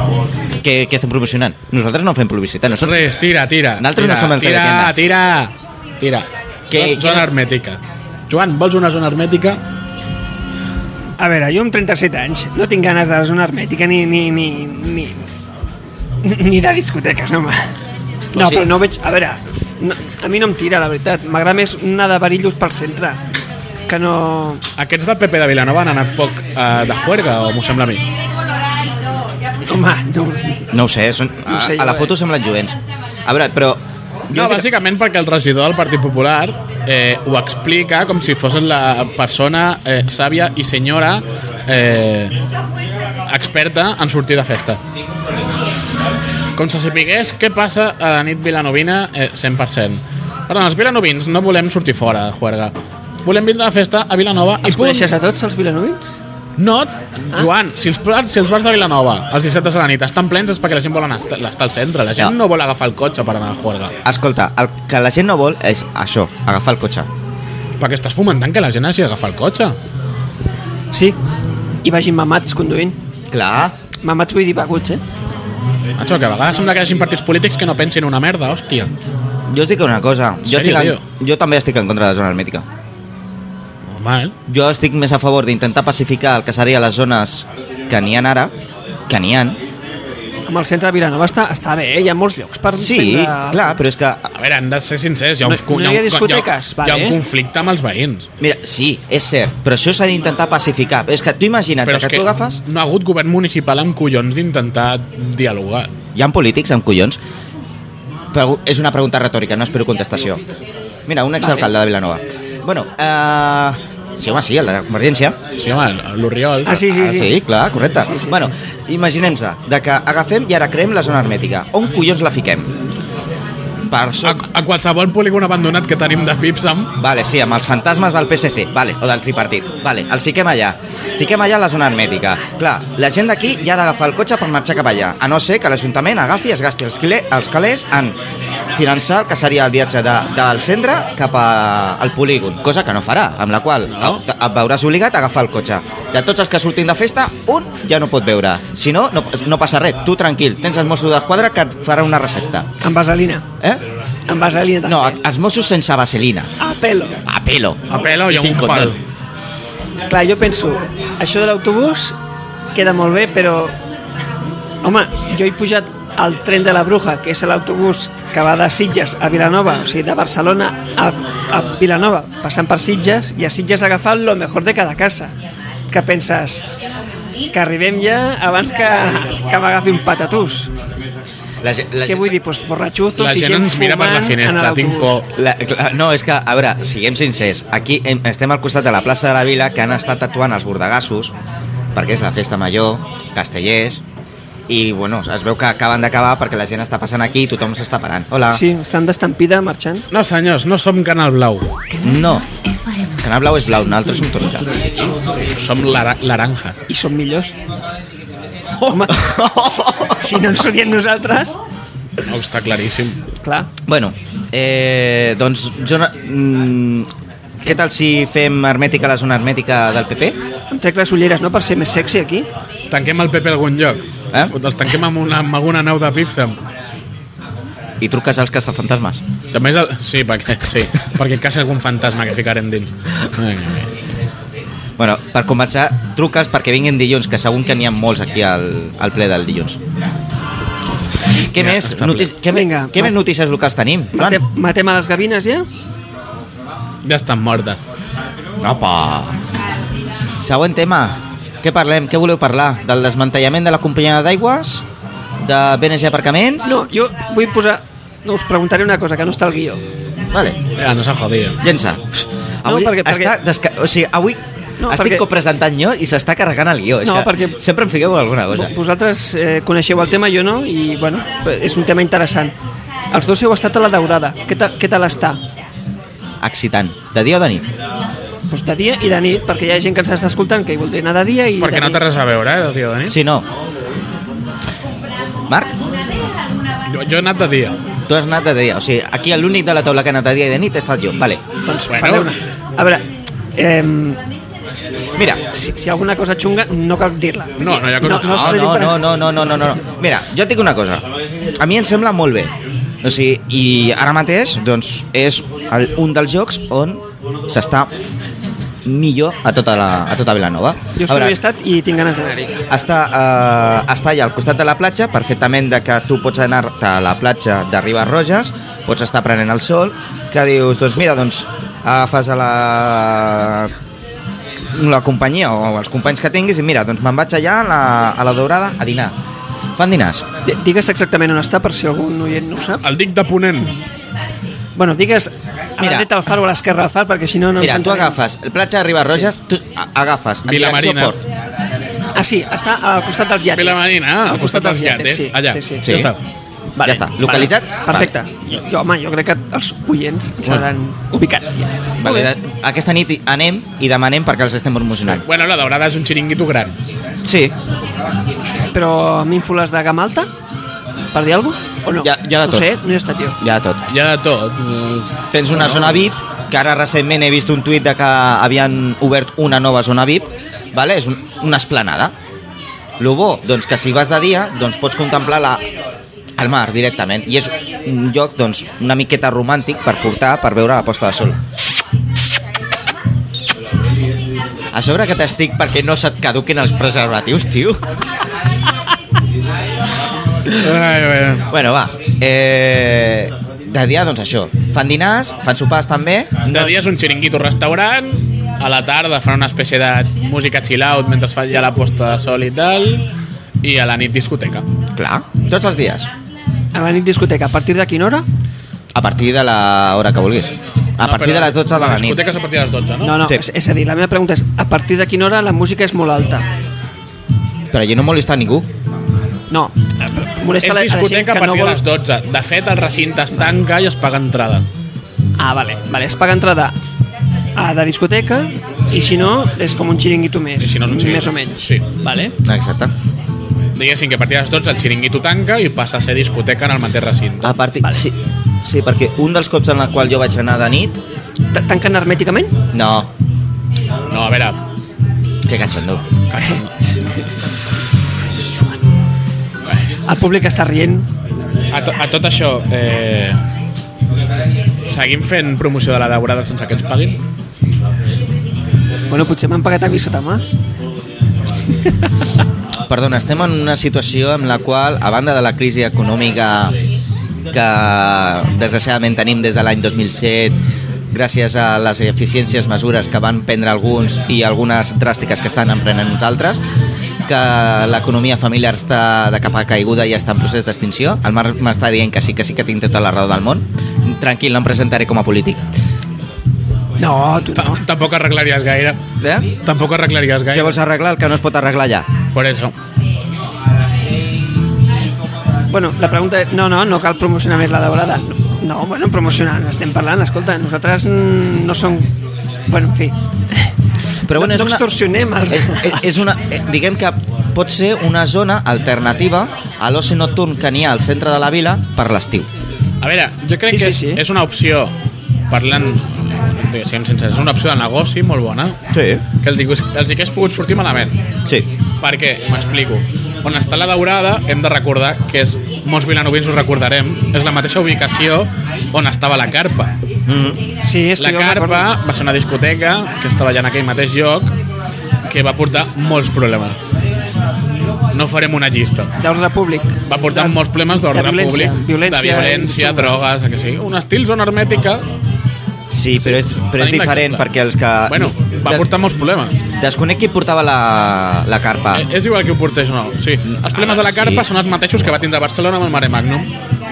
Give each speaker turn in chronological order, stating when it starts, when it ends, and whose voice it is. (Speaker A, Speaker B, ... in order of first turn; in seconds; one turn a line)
Speaker A: 0.6-3.0
Speaker B: 2.8-9.6
Speaker A: 3.8-4.9
Speaker A: 6.7-7.3
Speaker C: 11.2-15.2
Speaker C: 16.2-17.7
Speaker A: 18.3-18.7
Speaker C: 18.3-23.2
Speaker C: 23.9-24.6
Speaker B: 24.8-28.0
Speaker C: 29.7-30.7
Speaker A: 30.7-34.7
Speaker C: 31.5-32.1
Speaker B: 34.3-42.3
Speaker B: 43.3-44.8
Speaker B: 46.5-52.7
Speaker B: 53.2-55.1
Speaker C: 54.6-56.1
Speaker B: 56.6-63.9
Speaker A: 64.0-67.1
Speaker B: 67.8-69.8
Speaker C: 70.9-71.2
Speaker C: 71.8-73.0
Speaker A: 73.3-73.7
Speaker C: 74.0-75.0
Speaker B: 76.0-78.9
Speaker A: 79.5-82.6
Speaker B: 80.5-81.0
Speaker B: 83.9-84.3
Speaker A: 84.5-88.5
Speaker A: 89.1-89.6
Speaker C: 90.5-93.8
Speaker A: 92.7-94.3
Speaker B: 94.3-98.3
Speaker C: 95.4-97.2
Speaker A: 98.4-102.6
Speaker B: 101.8-105.9
Speaker A: 106.1-107.2
Speaker A: 108.3-110.4
Speaker A: 111.1-115.4
Speaker C: 111.4-111.7
Speaker B: 115.6-116.8
Speaker C: 116.6-117.4
Speaker A: 116.8-122.7
Speaker C: 118.0-118.5
Speaker A: 123.9-124.4
Speaker B: 124.2-126.9
Speaker A: 127.0-138.2
Speaker A: 138.8-152.7
Speaker B: 143.9-144.2
Speaker C: 152.8-153.4
Speaker C: 154.3-155.1
Speaker A: 154.8-156.5
Speaker C: 156.6-157.2
Speaker A: 157.2-158.9
Speaker B: 157.9-159.0
Speaker C: 160.1-162.2
Speaker C: 162.7-163.7
Speaker C: 164.8-175.3
Speaker C: 175.9-176.6
Speaker C: 177.5-180.7
Speaker A: 181.6-182.3
Speaker C: 182.1-185.2
Speaker B: 183.2-185.3
Speaker A: 185.3-191.3
Speaker A: 191.9-194.0
Speaker A: 194.7-198.6
Speaker C: 198.5-200.1
Speaker B: 200.1-201.7
Speaker A: 202.0-202.5
Speaker A: 203.0-204.8
Speaker B: 205.6-206.8
Speaker C: 206.9-207.5
Speaker B: 208.8-209.1
Speaker C: 208.9-209.5
Speaker A: 209.1-210.4
Speaker C: 210.2-211.6
Speaker B: 212.2-213.2
Speaker C: 213.4-213.7
Speaker A: 213.8-217.1
Speaker A: 217.6-220.4
Speaker C: 220.7-222.5
Speaker B: 222.9-226.6
Speaker A: 228.0-229.2
Speaker B: 229.5-233.9
Speaker A: 235.0-239.8
Speaker A: 241.4-244.4
Speaker B: 241.5-242.3
Speaker C: 242.5-243.1
Speaker C: 244.1-245.7
Speaker B: 247.0-247.8
Speaker A: 248.6-249.3
Speaker A: 250.4-254.8
Speaker A: 255.4-256.8
Speaker C: 256.6-259.8
Speaker A: 260.3-260.6
Speaker B: 260.8-261.6
Speaker A: 261.6-268.7
Speaker C: 262.6-263.3
Speaker C: 264.8-265.2
Speaker C: 267.0-267.6
Speaker C: 268.5-272.5
Speaker C: 273.1-275.4
Speaker A: 276.4-277.7
Speaker C: 278.5-282.0
Speaker B: 281.6-283.2
Speaker A: 283.1-283.4
Speaker A: 285.5-285.8
Speaker B: 286.9-287.7
Speaker A: 288.1-291.4
Speaker C: 291.6-293.0
Speaker B: 291.9-292.3
Speaker C: 293.6-294.2
Speaker C: 295.5-299.0
Speaker B: 297.6-298.6
Speaker A: 298.1-301.1
Speaker A: 301.6-307.9
Speaker A: 308.8-311.3
Speaker C: 310.9-312.6
Speaker A: 312.7-323.7
Speaker A: 324.7-329.1
Speaker A: 329.8-330.2
Speaker C: 330.4-332.8
Speaker B: 332.8-333.7
Speaker C: 334.8-338.2
Speaker A: 335.8-336.1
Speaker A: 337.6-341.2
Speaker B: 340.4-341.1
Speaker C: 342.1-345.9
Speaker B: 343.5-346.2
Speaker A: 345.8-346.1
Speaker C: 346.8-352.3
Speaker A: 346.8-348.1
Speaker A: 352.0-355.2
Speaker B: 355.1-356.8
Speaker A: 357.2-357.5
Speaker C: 358.7-360.3
Speaker C: 361.1-363.4
Speaker A: 362.0-362.7
Speaker A: 363.4-363.8
Speaker B: 363.9-366.0
Speaker A: 365.3-372.1
Speaker A: 373.0-375.6
Speaker A: 376.4-381.4
Speaker A: 384.7-387.9
Speaker B: 390.5-391.5
Speaker A: 391.5-396.8
Speaker B: 396.5-403.1
Speaker B: 403.6-404.6
Speaker A: 404.9-406.1
Speaker C: 406.7-408.2
Speaker A: 408.9-412.2
Speaker B: 411.0-413.2
Speaker C: 413.0-416.4
Speaker A: 417.7-418.6
Speaker C: 419.5-421.8
Speaker B: 420.6-424.6
Speaker C: 425.4-426.8
Speaker C: 427.6-432.3
Speaker B: 430.6-431.8
Speaker A: 432.4-432.9
Speaker B: 433.7-437.6
Speaker A: 437.4-441.0
Speaker C: 441.5-442.5
Speaker A: 442.7-443.1
Speaker B: 444.1-444.6
Speaker A: 445.4-446.0
Speaker B: 446.3-446.9
Speaker C: 450.1-451.1
Speaker B: 451.7-453.4
Speaker B: 454.9-457.2
Speaker C: 459.1-460.4
Speaker A: 462.9-466.7
Speaker A: 467.5-470.6
Speaker A: 471.1-476.6
Speaker A: 477.2-485.6
Speaker C: 487.0-487.8
Speaker B: 487.6-489.0
Speaker A: 489.2-489.5
Speaker B: 489.6-490.8
Speaker A: 490.5-492.1
Speaker B: 492.3-492.7
Speaker C: 495.7-502.1
Speaker C: 502.7-503.7
Speaker A: 504.3-504.8
Speaker C: 504.3-506.2
Speaker A: 505.5-512.5
Speaker B: 513.0-514.9
Speaker C: 513.7-514.2
Speaker B: 515.5-518.8
Speaker A: 518.9-519.2
Speaker B: 519.4-521.1
Speaker B: 522.0-529.9
Speaker A: 530.3-530.6
Speaker C: 530.8-531.9
Speaker B: 531.2-534.5
Speaker B: 535.3-536.8
Speaker B: 538.1-539.1
Speaker C: 539.2-543.1
Speaker B: 540.1-545.0
Speaker A: 545.9-548.8
Speaker B: 546.2-547.4
Speaker B: 548.1-549.6
Speaker A: 549.8-552.0
Speaker B: 551.9-556.5
Speaker A: 553.5-554.5